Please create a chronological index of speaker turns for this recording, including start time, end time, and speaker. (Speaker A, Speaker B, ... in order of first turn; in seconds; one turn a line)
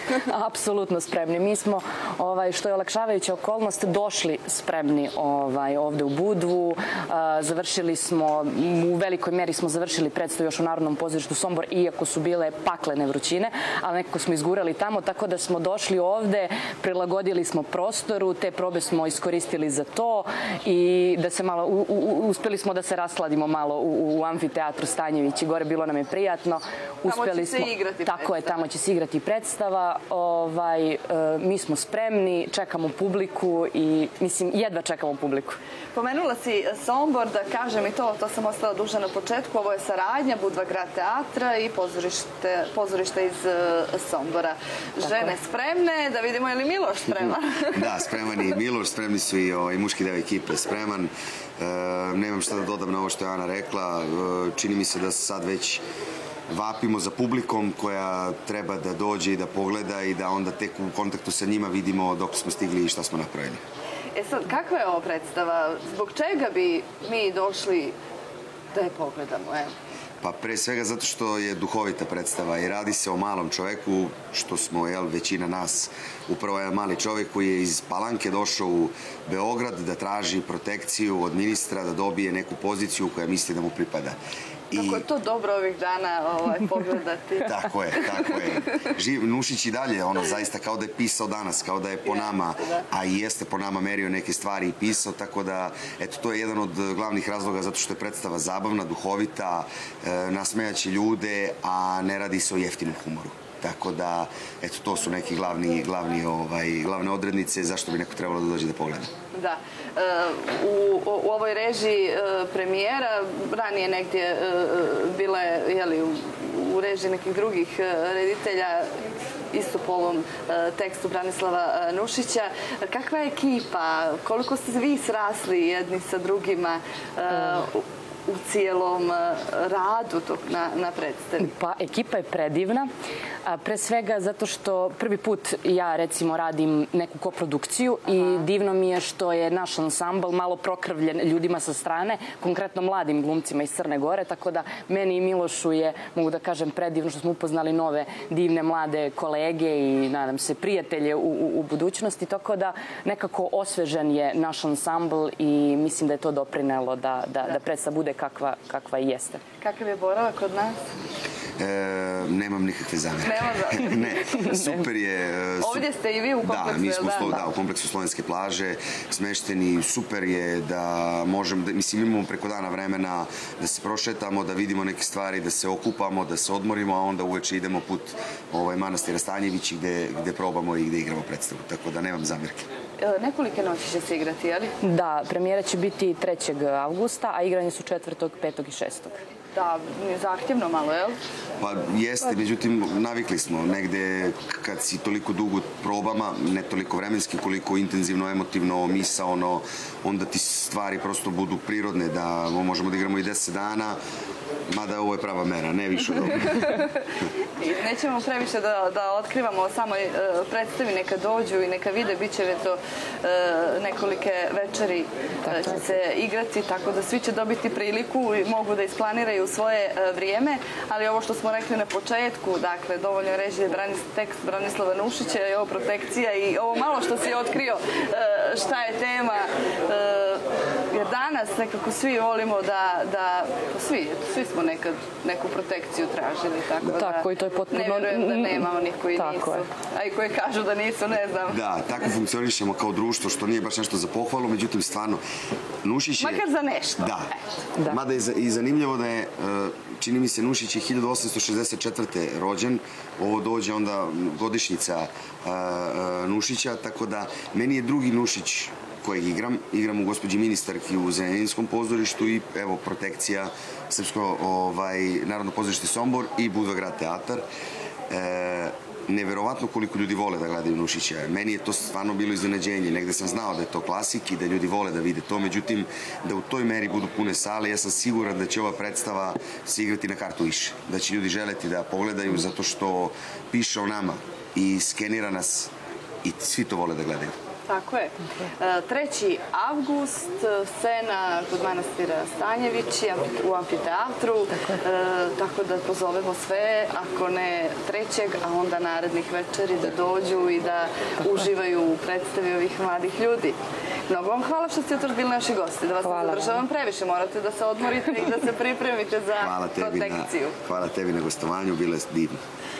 Speaker A: 0.3-35.6
Speaker B: 27.1-28.6
Speaker B: 35.9-48.0
Speaker C: 47.7-55.8
Speaker C: 56.5-63.6
Speaker B: 64.1-68.0
Speaker B: 68.7-69.7
Speaker C: 70.2-84.2
Speaker C: 84.7-85.0
Speaker B: 84.7-88.4
Speaker C: 87.4-109.1
Speaker B: 92.1-92.8
Speaker B: 109.3-119.0
Speaker B: 119.5-131.5
Speaker A: 131.4-132.9
Speaker A: 133.4-159.4
Speaker B: 138.1-138.4
Speaker B: 159.6-160.8
Speaker C: 161.6-165.9
Speaker B: 163.2-164.4
Speaker A: 164.4-164.8
Speaker B: 165.6-167.3
Speaker C: 166.4-182.7
Speaker B: 183.0-184.7
Speaker A: 184.8-189.2
Speaker B: 189.6-191.2
Speaker C: 191.6-204.0
Speaker C: 204.7-206.8
Speaker B: 206.6-206.9
Speaker B: 207.6-241.6
Speaker A: 215.4-215.8
Speaker A: 236.9-239.6
Speaker C: 241.5-245.2
Speaker C: 245.8-246.4
Speaker B: 246.2-247.2
Speaker C: 247.0-267.4
Speaker C: 268.1-285.7
Speaker C: 286.2-287.3
Speaker B: 287.7-303.6
Speaker B: 304.1-310.6
Speaker A: 306.0-306.6
Speaker C: 309.4-312.4